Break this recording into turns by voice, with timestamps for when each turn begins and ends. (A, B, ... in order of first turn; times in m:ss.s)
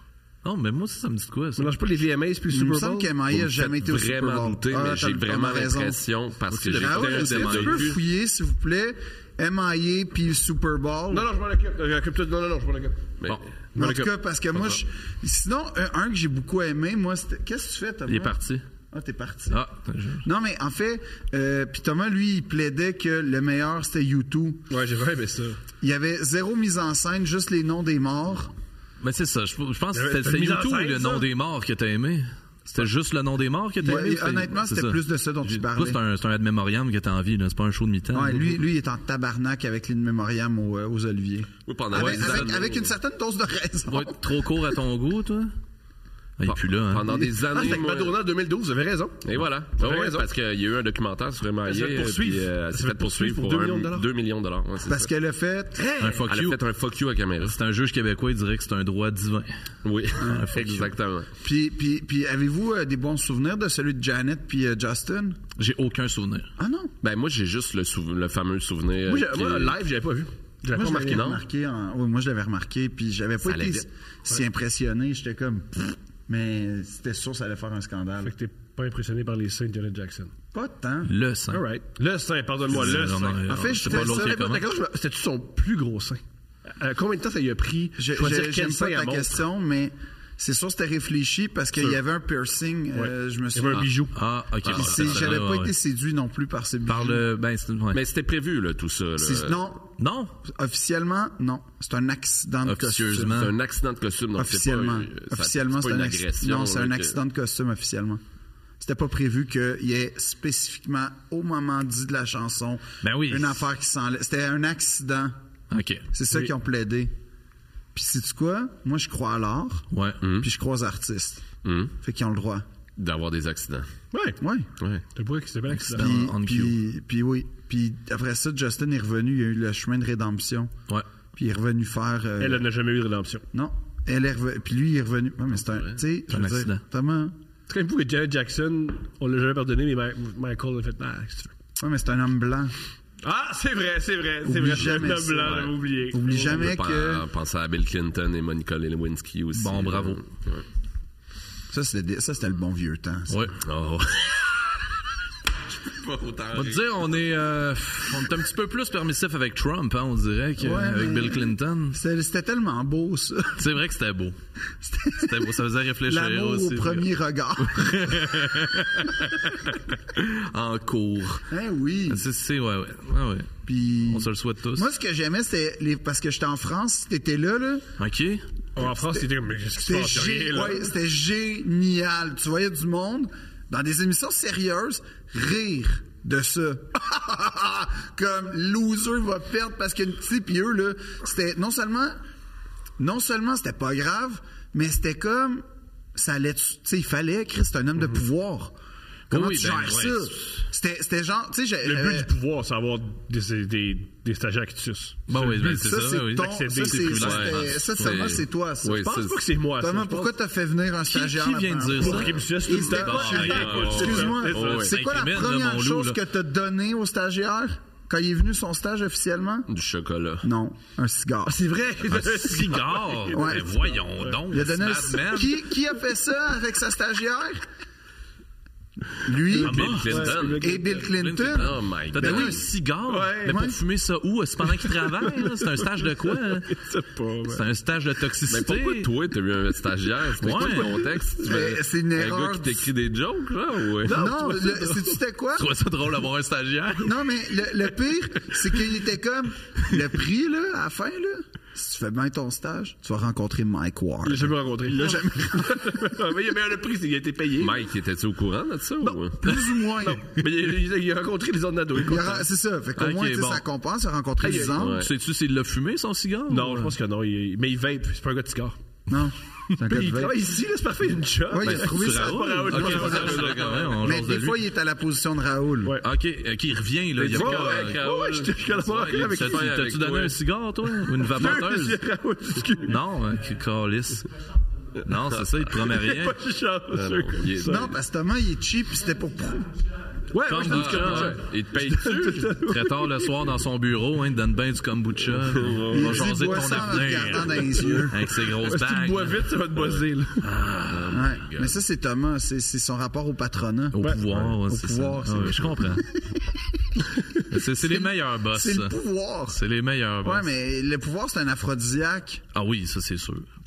0:00.4-0:01.7 A
0:01.6-0:03.1 B
0:02.5-0:06.0 C
0:03.3-0:08.0 D
0:06.5-0:07.9 A
0:06.7-0:11.3 C
0:11.1-0:14.1 B
0:13.8-0:18.4 C
0:18.1-0:18.6 A
0:18.9-0:19.6 C
0:19.5-0:20.2 A
0:20.2-0:24.7 C
0:24.7-0:25.6 B
0:25.8-0:28.5 C
0:29.0-0:38.6 A
0:29.9-0:31.3 B
0:33.8-0:36.0 C
0:38.1-0:44.6 C
0:41.6-0:42.9 D
0:41.9-0:42.5 A
0:43.9-0:45.5 A
0:46.4-0:47.2 A
0:46.4-0:48.2 D
0:47.0-0:50.2 B
0:49.2-0:55.1 D
0:51.6-0:54.1 B
0:54.9-0:55.9 C
0:55.8-0:56.2 B
0:56.0-0:56.6 A
0:56.3-0:57.6 D
0:57.4-0:59.6 A
0:59.8-1:01.3 D
1:00.2-1:00.9 A
1:00.2-1:00.5 C
1:01.4-1:05.4 C
1:05.6-1:06.5 A
1:06.6-1:06.9 C
1:07.0-1:09.8 D
1:09.1-1:11.4 B
1:10.7-1:18.3 C
1:10.8-1:11.4 D
1:13.4-1:13.8 D
1:18.2-1:20.3 B
1:20.5-1:21.1 C
1:21.0-1:21.6 A
1:21.5-1:29.4 B
1:22.7-1:24.6 A
1:23.5-1:24.4 C
1:28.0-1:34.0 C
1:32.9-1:34.2 B
1:34.1-1:35.7 A
1:34.6-1:35.4 D
1:34.6-1:37.2 C
1:36.8-1:38.0 A
1:37.9-1:39.7 D
1:39.2-1:43.4 C
1:40.0-1:40.3 A
1:42.6-1:43.5 A
1:43.2-1:47.2 D
1:44.4-1:48.2 C
1:48.8-1:55.4 C
1:53.0-1:53.6 A
1:55.7-1:56.0 A
1:56.1-1:57.1 C
1:57.9-2:01.5 C
1:59.9-2:00.2 A
2:00.2-2:00.5 D
2:01.6-2:01.9 D
2:02.0-2:02.6 C
2:03.0-2:03.9 D
2:04.1-2:04.4 B
2:04.4-2:04.7 C
2:04.8-2:05.0 D
2:05.1-2:06.2 B
2:05.7-2:06.8 A
2:05.9-2:10.7 C
2:11.3-2:12.6 C
2:12.4-2:13.4 B
2:13.5-2:17.3 C
2:16.3-2:16.8 A
2:17.7-2:21.5 B
2:21.8-2:22.7 C
2:23.2-2:26.7 B
2:24.4-2:27.2 C
2:25.4-2:25.8 D
2:26.3-2:30.6 D
2:29.5-2:30.2 A
2:31.7-2:33.4 C
2:33.3-2:33.5 A
2:33.6-2:34.7 D
2:35.7-2:36.9 D
2:36.5-2:42.0 A
2:40.6-2:43.7 C
2:43.6-2:44.4 A
2:44.8-2:49.0 C
2:45.2-2:47.1 A
2:47.6-2:51.4 A
2:51.5-2:52.2 C
2:52.1-2:54.9 A
2:53.6-2:57.9 C
2:58.0-2:58.4 A
2:58.8-3:00.8 B
2:59.8-3:12.2 C
3:13.0-3:18.7 C
3:19.3-3:20.6 A
3:19.3-3:22.3 C
3:21.8-3:27.4 B
3:25.3-3:28.3 A
3:25.6-3:29.0 C
3:27.2-3:29.5 D
3:28.8-3:30.3 B
3:29.8-3:39.7 C
3:31.1-3:36.2 A
3:31.9-3:34.9 B
3:33.4-3:35.0 D
3:39.7-3:40.5 D
3:40.4-3:41.6 C
3:41.4-3:44.4 B
3:42.1-3:45.6 A
3:43.3-3:43.9 C
3:44.4-3:47.6 C
3:49.2-3:52.6 C
3:49.4-3:51.1 B
3:49.5-3:50.8 D
3:49.6-3:50.4 A
3:51.0-3:56.8 A
3:51.5-3:52.6 D
3:53.1-3:53.6 B
3:53.4-3:53.8 C
3:54.7-3:57.6 B
3:57.5-3:59.1 A
3:58.5-4:04.3 D
4:00.4-4:01.0 A
4:00.4-4:01.2 B
4:01.4-4:02.9 C
4:04.0-4:05.2 B
4:04.1-4:05.7 C
4:05.5-4:07.2 A
4:07.0-4:16.0 C
4:14.2-4:17.8 B
4:17.6-4:19.5 D
4:19.0-4:22.5 B
4:19.4-4:20.3 C
4:22.0-4:25.1 C
4:23.0-4:23.6 A
4:24.4-4:24.8 B
4:24.7-4:25.1 D
4:24.8-4:26.9 A
4:26.5-4:28.8 B
4:29.1-4:30.4 C
4:29.8-4:33.9 B
4:31.5-4:36.0 C
4:31.6-4:34.6 A
4:32.8-4:33.9 D
4:35.8-4:36.1 B
4:36.0-4:38.0 A
4:37.2-4:39.7 B
4:37.2-4:40.4 D
4:39.1-4:42.0 A
4:41.2-4:43.0 B
4:42.8-4:44.3 A
4:45.0-4:46.4 A
4:45.7-4:47.9 B
4:46.9-4:48.0 D
4:47.6-4:49.8 C
4:50.3-4:53.3 B
4:50.4-4:51.4 A
4:50.6-4:52.6 D
4:52.6-4:59.5 A
4:55.3-4:56.8 D
4:55.9-4:58.3 C
4:57.4-5:00.5 B
5:00.4-5:01.3 A
5:00.8-5:01.8 D
5:01.1-5:09.6 C
5:03.9-5:06.1 A
5:07.4-5:08.9 A
5:09.5-5:10.5 A
5:10.2-5:12.4 C
5:12.5-5:13.5 A